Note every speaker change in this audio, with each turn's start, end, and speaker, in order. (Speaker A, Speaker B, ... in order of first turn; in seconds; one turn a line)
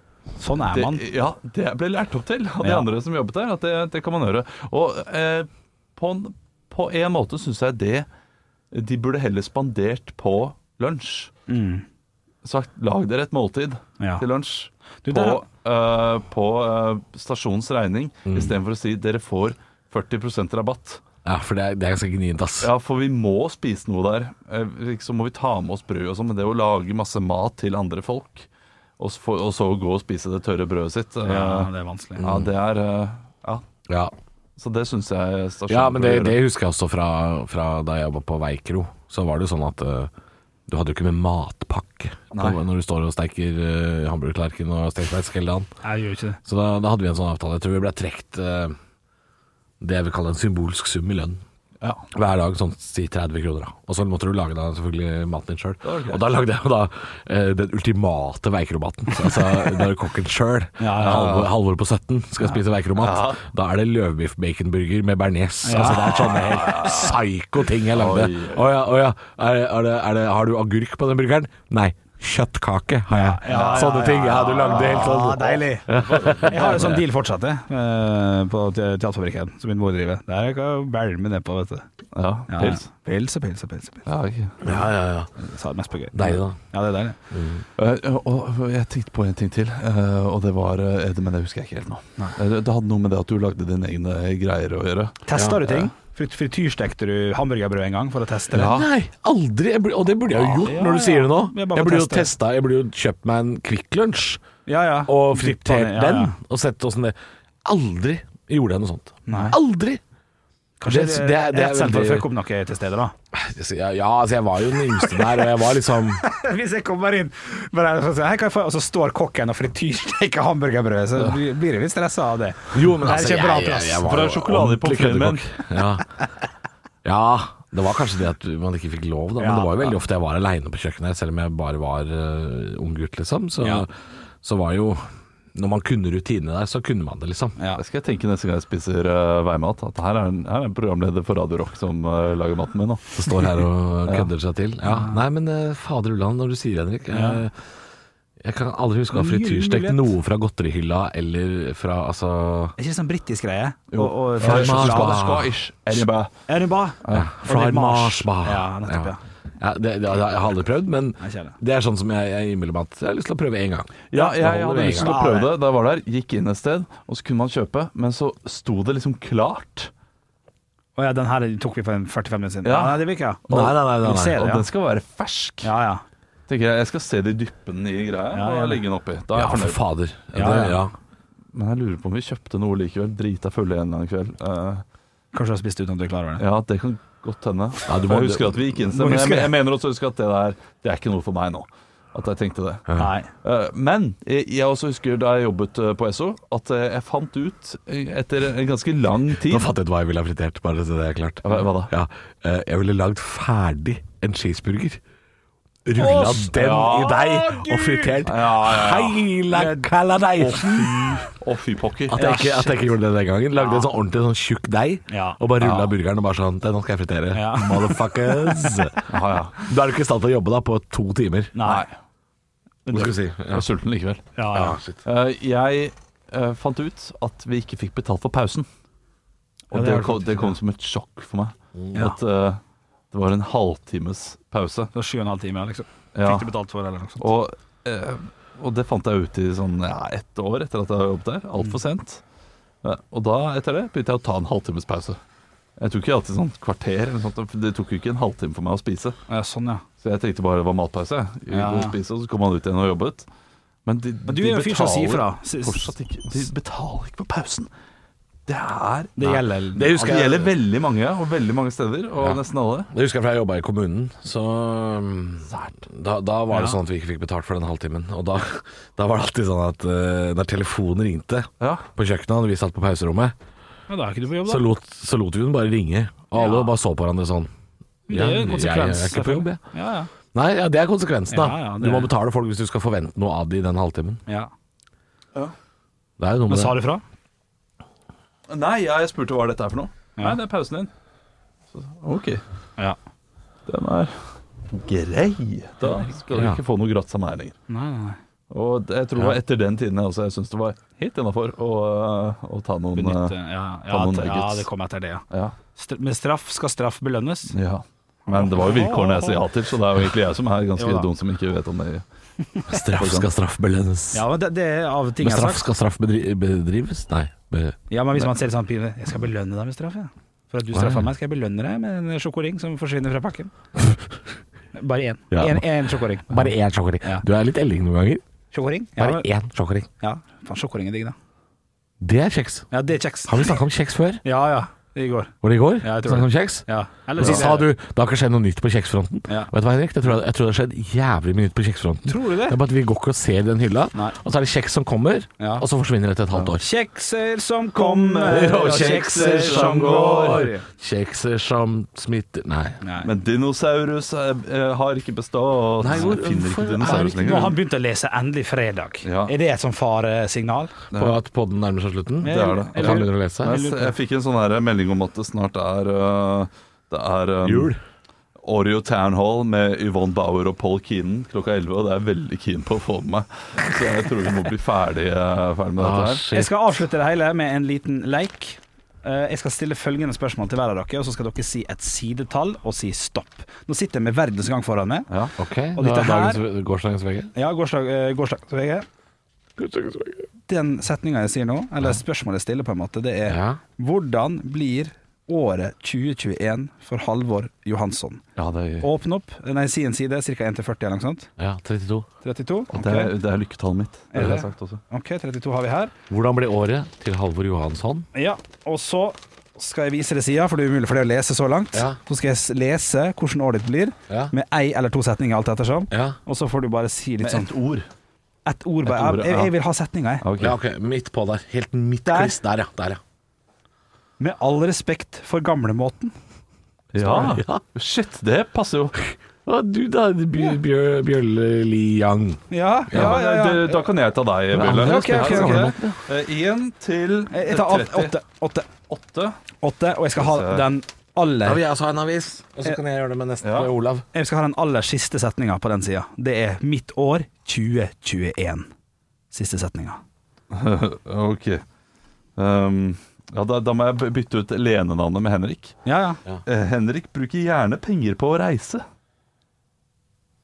Speaker A: 0.4-1.0
Speaker B: 0.7-8.1
Speaker A: 2.6-2.9
Speaker B: 8.7-11.3
Speaker A: 11.5-11.8
Speaker B: 12.4-21.0
Speaker A: 14.0-14.2
Speaker A: 15.0-15.4
Speaker C: 18.2-18.6
Speaker C: 21.2-22.7
Speaker B: 22.6-28.5
Speaker B: 29.0-33.6
Speaker A: 31.2-32.2
Speaker C: 32.2-32.5
Speaker C: 33.9-34.1
Speaker B: 34.6-36.4
Speaker C: 35.7-40.1
Speaker C: 40.7-45.7
Speaker B: 42.3-42.6
Speaker A: 45.8-46.4
Speaker C: 46.4-48.8
Speaker C: 49.8-51.4
Speaker C: 52.1-77.0
Speaker B: 55.8-56.2
Speaker A: 60.8-61.4
Speaker B: 61.0-61.5
Speaker B: 63.0-63.4
Speaker A: 65.6-67.1
Speaker B: 65.8-67.1
Speaker B: 67.9-68.7
Speaker A: 73.1-75.9
Speaker B: 73.5-77.0
Speaker A: 76.4-81.9
Speaker B: 82.1-82.8
Speaker A: 82.5-84.1
Speaker B: 84.0-84.7
Speaker C: 84.6-85.3
Speaker A: 85.4-87.2
Speaker C: 86.1-86.5
Speaker C: 87.3-87.6
Speaker B: 87.8-95.2
Speaker A: 95.2-98.8
Speaker C: 95.3-95.8
Speaker B: 98.5-98.9
Speaker C: 98.5-104.4
Speaker A: 100.5-102.3
Speaker A: 104.7-106.3
Speaker C: 105.1-110.0
Speaker A: 109.3-109.6
Speaker A: 110.8-113.1
Speaker C: 110.8-112.2
Speaker C: 113.3-116.2
Speaker A: 115.0-124.0
Speaker C: 122.7-126.2
Speaker B: 124.0-125.5
Speaker C: 127.0-133.9
Speaker A: 129.4-130.0
Speaker C: 134.4-137.6
Speaker A: 137.6-137.8
Speaker B: 137.8-143.2
Speaker C: 143.1-147.7
Speaker A: 144.8-145.2
Speaker A: 147.1-147.4
Speaker C: 148.4-152.8
Speaker A: 149.1-150.1
Speaker A: 152.8-155.2
Speaker B: 153.9-156.3
Speaker C: 154.4-155.5
Speaker A: 156.5-159.2
Speaker B: 157.0-157.3
Speaker C: 157.1-165.2
Speaker A: 161.2-161.6
Speaker B: 164.1-169.9
Speaker A: 164.1-165.5
Speaker A: 170.9-174.6
Speaker B: 172.6-173.8
Speaker C: 173.5-174.4
Speaker B: 174.3-175.7
Speaker A: 175.6-176.0
Speaker B: 176.5-179.8
Speaker A: 178.3-178.8
Speaker C: 179.3-180.9
Speaker A: 180.3-180.8
Speaker B: 181.5-184.8
Speaker A: 185.3-186.4
Speaker B: 186.4-192.9
Speaker C: 187.9-188.6
Speaker A: 188.9-189.5
Speaker A: 193.0-193.3
Speaker B: 193.4-199.7
Speaker C: 199.4-205.0
Speaker B: 201.4-201.9
Speaker C: 205.8-211.3
Speaker A: 205.9-208.2
Speaker B: 206.5-207.2
Speaker B: 208.2-209.2
Speaker A: 209.5-209.9
Speaker B: 210.4-212.2
Speaker C: 212.1-219.1
Speaker A: 212.2-212.9
Speaker A: 213.5-213.9
Speaker A: 215.1-215.4
Speaker B: 215.6-215.9
Speaker A: 217.3-219.0
Speaker B: 219.1-219.5
Speaker C: 219.6-221.5
Speaker A: 221.5-221.9
Speaker B: 221.6-221.9
Speaker C: 222.9-223.7
Speaker B: 222.9-224.2
Speaker A: 224.3-224.8
Speaker C: 224.5-225.0
Speaker B: 225.0-228.7
Speaker B: 229.7-234.9
Speaker A: 229.7-230.6
Speaker A: 234.9-237.3
Speaker B: 236.1-236.5
Speaker B: 237.2-242.2
Speaker B: 242.8-245.2
Speaker B: 245.8-249.2
Speaker A: 249.3-249.8
Speaker B: 250.0-253.3
Speaker A: 251.5-251.9
Speaker B: 253.8-257.7
Speaker A: 254.3-255.9
Speaker B: 258.5-259.2
Speaker A: 259.2-260.0
Speaker C: 259.2-260.5
Speaker B: 259.9-262.9
Speaker C: 262.9-273.3
Speaker B: 265.5-265.8
Speaker A: 266.5-266.8
Speaker B: 271.6-271.9
Speaker A: 273.9-274.7
Speaker C: 274.4-277.5
Speaker A: 276.3-276.7
Speaker C: 278.1-279.6
Speaker A: 278.1-280.1
Speaker C: 280.3-284.2
Speaker A: 281.3-282.1
Speaker C: 286.2-286.8
Speaker A: 286.5-287.0
Speaker B: 288.5-290.9
Speaker B: 291.7-292.4
Speaker B: 293.7-297.6
Speaker C: 296.3-296.6
Speaker A: 297.7-298.2
Speaker B: 298.5-303.3
Speaker A: 302.9-307.6
Speaker B: 303.9-304.7
Speaker B: 305.3-305.6
Speaker B: 307.5-312.0
Speaker A: 308.2-309.4
Speaker A: 310.8-311.1
Speaker C: 312.7-314.2
Speaker B: 312.9-313.3
Speaker A: 314.1-315.6
Speaker C: 315.2-317.8
Speaker A: 317.9-323.5
Speaker C: 320.7-321.1
Speaker A: 324.7-326.4
Speaker C: 325.3-325.7
Speaker C: 326.3-328.2
Speaker A: 328.5-329.3
Speaker C: 329.0-329.9
Speaker A: 330.0-331.1
Speaker C: 332.0-332.7
Speaker A: 332.7-333.5
Speaker C: 333.3-334.2
Speaker A: 334.2-337.7
Speaker C: 335.4-346.6
Speaker A: 342.0-342.6
Speaker A: 345.4-345.6
Speaker B: 346.3-346.6
Speaker A: 346.6-350.6
Speaker B: 347.8-350.5
Speaker C: 348.2-352.8
Speaker A: 352.8-353.1
Speaker B: 353.0-357.6
Speaker C: 355.8-357.6
Speaker A: 355.9-356.2
Speaker A: 356.8-360.8
Speaker B: 359.0-359.3
Speaker B: 360.9-361.2
Speaker C: 360.9-363.6
Speaker A: 362.2-363.9
Speaker B: 362.2-367.7
Speaker C: 367.4-367.8
Speaker B: 368.4-376.2
Speaker C: 375.8-376.6
Speaker A: 376.3-385.1
Speaker B: 385.1-385.3
Speaker C: 385.4-387.3
Speaker A: 385.8-386.4
Speaker A: 387.3-388.9
Speaker C: 389.6-390.3
Speaker A: 390.5-398.2
Speaker C: 393.2-393.6
Speaker B: 398.4-398.9
Speaker A: 398.8-401.3
Speaker C: 401.4-402.1
Speaker A: 402.2-403.1
Speaker B: 402.7-404.8
Speaker A: 404.1-405.9
Speaker C: 406.1-408.1
Speaker A: 408.1-417.5
Speaker C: 415.9-416.2
Speaker B: 417.2-417.9
Speaker A: 418.4-420.2
Speaker B: 418.9-419.5
Speaker B: 420.2-420.6
Speaker C: 420.4-423.0
Speaker A: 422.1-422.4
Speaker A: 424.2-426.1
Speaker B: 426.9-428.9
Speaker A: 427.0-427.3
Speaker C: 427.1-427.6
Speaker C: 429.4-433.2
Speaker A: 432.5-433.8
Speaker B: 432.9-438.1
Speaker C: 434.5-436.0
Speaker A: 434.6-435.8
Speaker A: 437.3-438.7
Speaker B: 438.9-439.4
Speaker A: 439.6-441.6
Speaker B: 440.1-440.7
Speaker C: 441.4-444.0
Speaker B: 443.4-443.7
Speaker A: 444.1-448.7
Speaker A: 449.3-450.0
Speaker B: 450.5-451.6
Speaker B: 452.4-455.8
Speaker A: 455.8-456.2
Speaker B: 456.4-458.8